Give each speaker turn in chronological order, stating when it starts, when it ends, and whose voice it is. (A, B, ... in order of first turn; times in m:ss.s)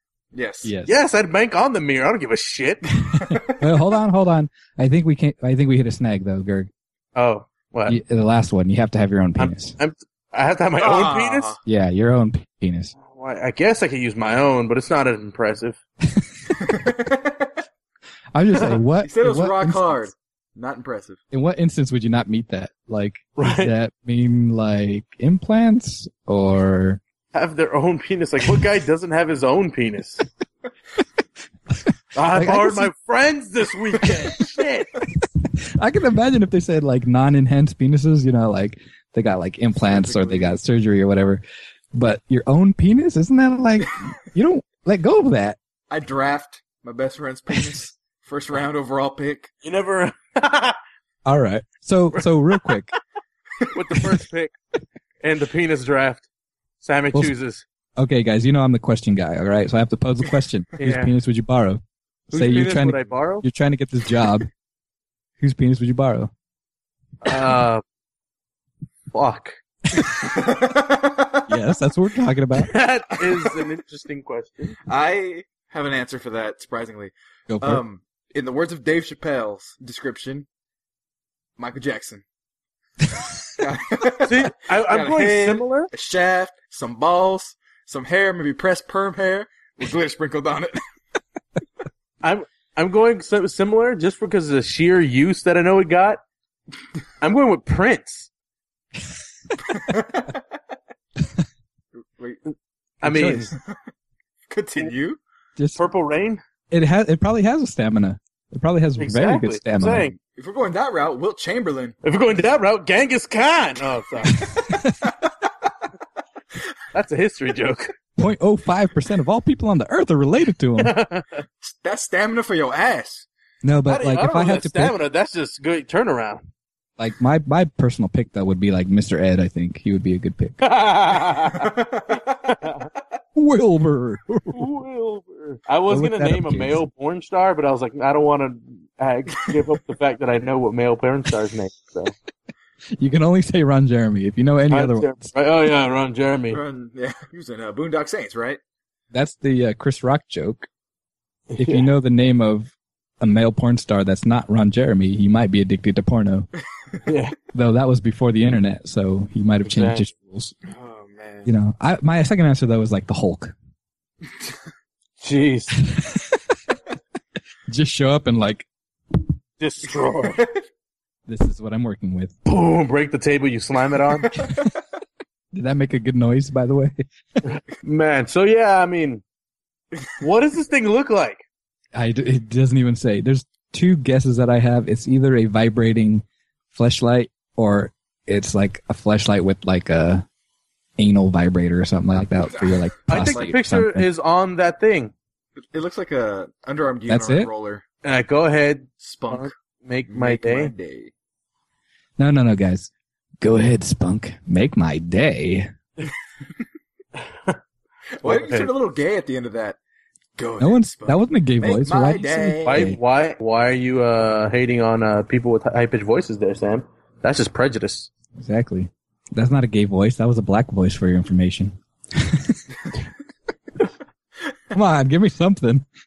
0:00.3-0:00.7 A
0:00.6-0:00.9 B
0:00.9-0:02.9 C
0:03.2-0:03.6 A
0:03.5-0:06.7 B
0:07.2-0:08.0 C
0:07.9-0:09.8 B
0:09.4-0:11.5 C
0:10.8-0:11.6 A
0:11.6-0:12.9 B
0:13.0-0:15.8 C
0:16.1-0:16.8 B
0:16.6-0:17.6 A
0:18.4-0:20.0 B
0:19.0-0:21.2 A
0:21.3-0:27.0 B
0:23.4-0:23.7 C
0:27.3-0:30.3 C
0:32.2-0:34.9 C
0:32.3-0:32.9 B
0:35.6-0:41.4 B
0:39.8-0:40.6 A
0:41.9-0:45.6 B
0:45.9-0:49.5 A
0:49.6-0:50.8 C
0:51.3-0:52.9 B
0:52.2-0:52.7 C
0:53.7-0:54.5 C
0:55.2-0:56.3 C
0:56.8-0:57.6 C
0:58.0-1:04.5 B
1:00.8-1:01.1 C
1:02.3-1:03.4 C
1:05.4-1:06.3 B
1:07.2-1:07.8 C
1:09.1-1:09.6 C
1:10.2-1:11.5 A
1:11.5-1:12.8 B
1:12.6-1:14.8 C
1:14.9-1:20.5 A
1:17.5-1:17.8 B
1:21.6-1:22.2 A
1:23.5-1:30.8 A
1:24.2-1:25.9 C
1:32.2-1:36.2 C
1:37.2-1:38.3 C
1:39.7-1:40.4 A
1:42.2-1:42.4 A
1:43.0-1:43.5 B
1:43.0-1:43.5 C
1:44.5-1:45.2 A
1:45.8-1:46.4 C
1:46.7-1:50.1 B
1:49.0-1:50.2 C
1:50.4-1:52.0 A
1:52.0-1:54.4 C
1:54.4-1:55.0 B
1:56.9-1:57.9 C
1:58.2-2:01.0 B
2:00.8-2:01.4 C
2:01.6-2:03.3 A
2:03.6-2:05.0 B
2:03.9-2:06.4 C
2:07.0-2:10.7 B
2:10.6-2:11.7 C
2:11.5-2:12.8 A
2:12.5-2:12.9 C
2:13.4-2:14.7 B
2:14.5-2:22.1 C
2:15.9-2:16.8 B
2:23.0-2:25.2 B
2:24.7-2:26.6 C
2:26.5-2:28.6 A
2:29.1-2:30.7 B
2:31.5-2:31.9 C
2:31.6-2:36.5 B
2:37.1-2:37.4 C
2:37.5-2:40.6 B
2:39.6-2:40.1 C
2:40.7-2:41.5 A
2:41.4-2:43.5 B
2:45.2-2:45.7 C
2:45.8-2:46.6 B
2:47.7-2:48.7 B
2:49.6-2:50.4 C
2:51.3-2:52.4 B
2:52.4-2:54.4 C
2:55.5-2:57.0 B
2:57.5-2:59.2 C
3:00.2-3:01.4 C
3:02.0-3:10.3 B
3:11.0-3:14.1 B
3:12.6-3:13.5 A
3:13.1-3:15.1 C
3:15.7-3:17.8 A
3:17.1-3:17.5 B
3:18.0-3:20.7 C
3:19.0-3:19.5 A
3:20.1-3:21.1 A
3:22.2-3:25.7 B
3:28.2-3:29.8 A
3:28.2-3:28.7 C
3:30.4-3:33.0 A
3:30.6-3:33.0 B
3:32.7-3:38.1 C
3:38.4-3:42.6 B
3:44.7-3:45.9 B